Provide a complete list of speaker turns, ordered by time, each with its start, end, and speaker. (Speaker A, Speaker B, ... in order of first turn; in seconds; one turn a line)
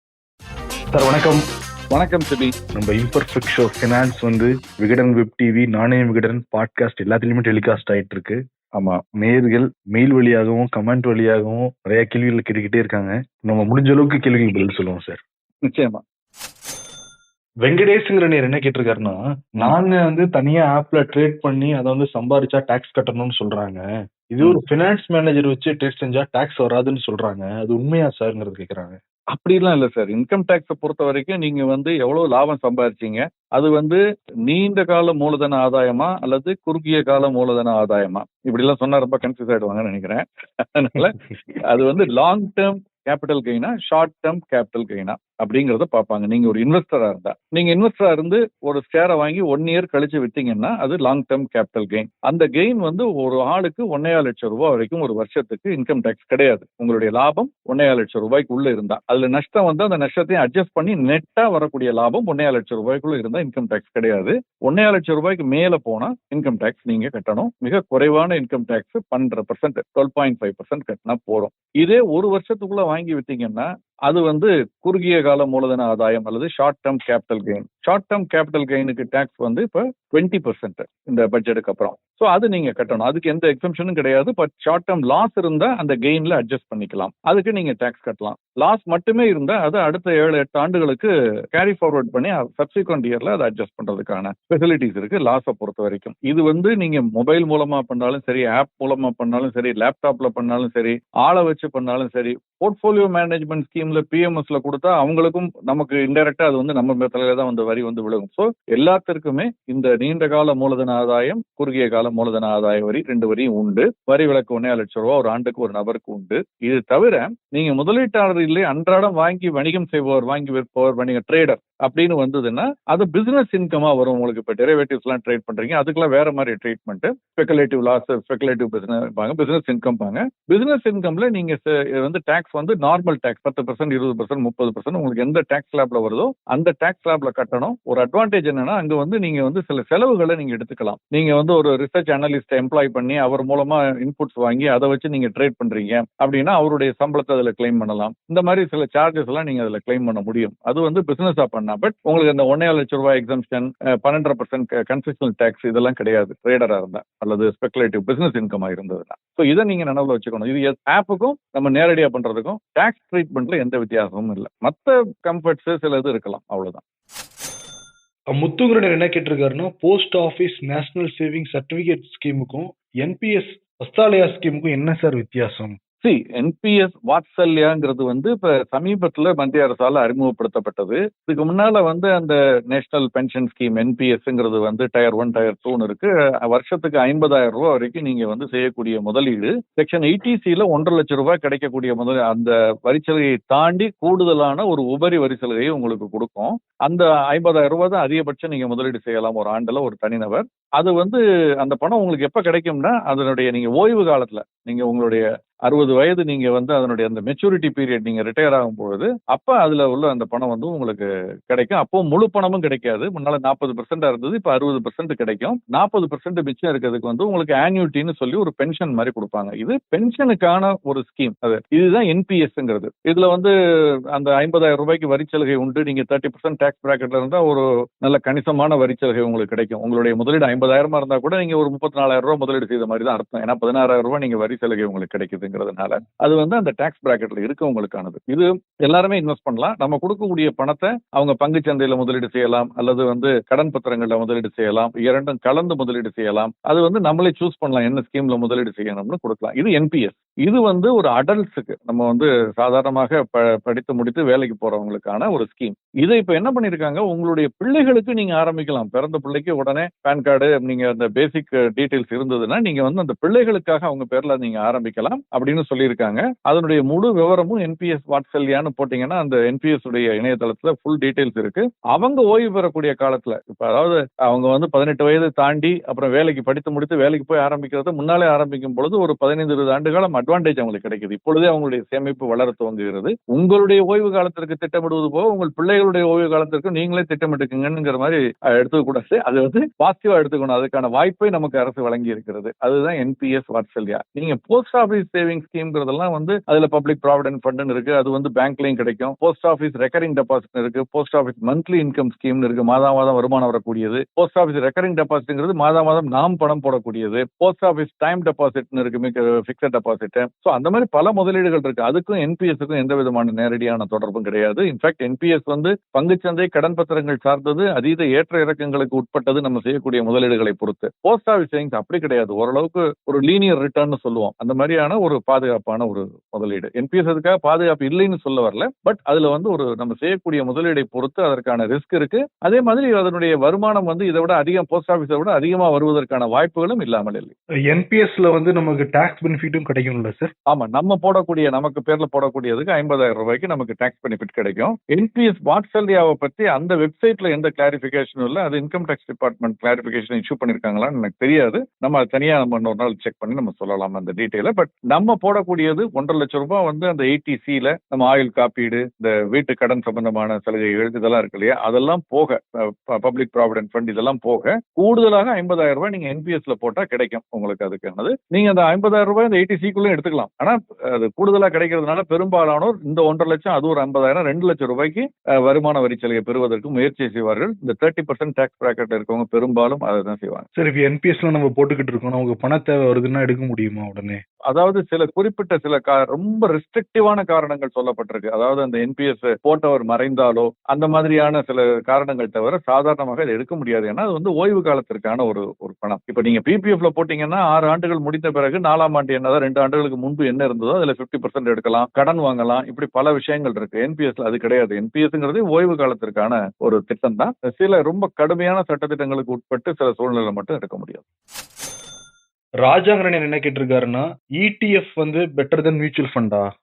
Speaker A: 0.9-1.4
Speaker B: 1.9-2.5
Speaker A: 2.7-8.4
Speaker B: 8.7-9.0
Speaker A: 9.2-15.2
Speaker B: 15.6-16.0
Speaker A: 17.6-29.0
Speaker B: 29.3-166.8
Speaker A: 168.3-175.8
Speaker B: 176.0-223.5
Speaker B: 224.1-337.3
Speaker A: 337.7-340.3
Speaker B: 340.5-380.4
Speaker A: 380.6-384.2
Speaker B: 384.5-411.0
Speaker A: 412.6-416.5